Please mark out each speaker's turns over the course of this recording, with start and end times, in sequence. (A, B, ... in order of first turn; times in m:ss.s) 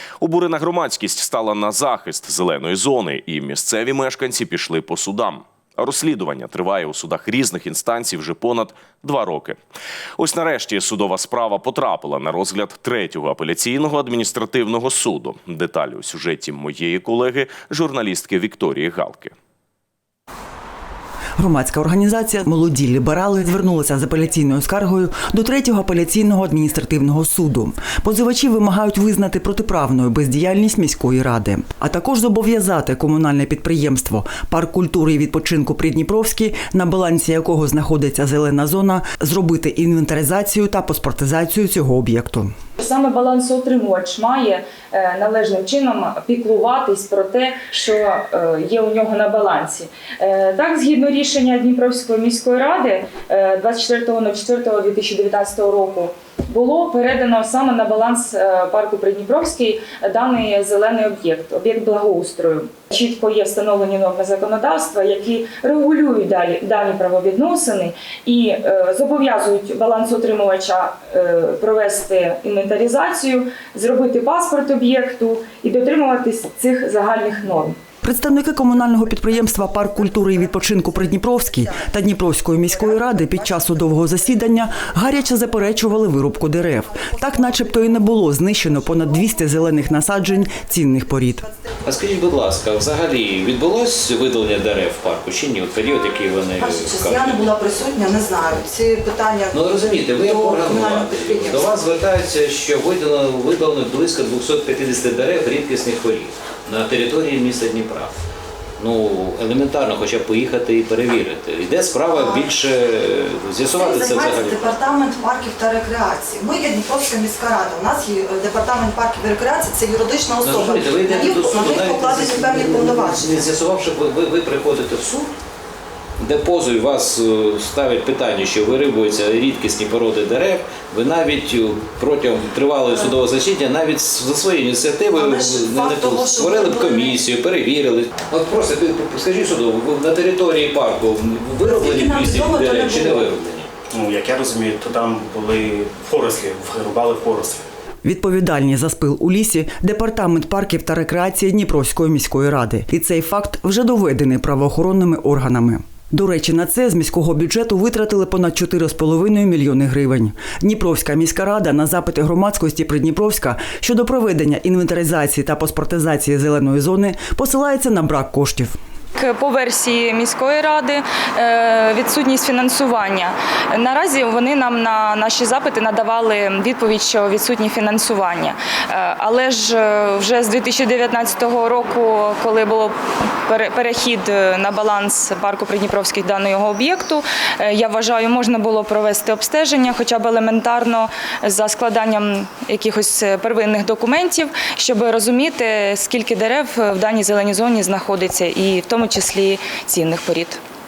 0:00.2-0:09.6 A
0:10.2-0:19.3 A
0:21.4-0:42.5 B
0:42.8-1:17.8 C
1:18.0-1:31.5 B
1:19.9-1:21.9 D
1:22.8-1:24.5 D
1:26.9-1:28.0 D
1:29.1-1:30.1 D
1:31.8-1:37.6 E
1:36.6-1:41.7 D
1:39.5-1:48.1 E
1:48.8-1:54.8 E
1:52.1-1:52.5 D
1:53.8-2:03.4 D
2:00.4-2:05.3 E
2:06.2-2:23.7 E
2:15.2-2:17.2 D
2:21.6-2:23.3 D
2:23.9-2:27.7 F
2:28.0-2:48.8 B
2:49.2-3:20.6 C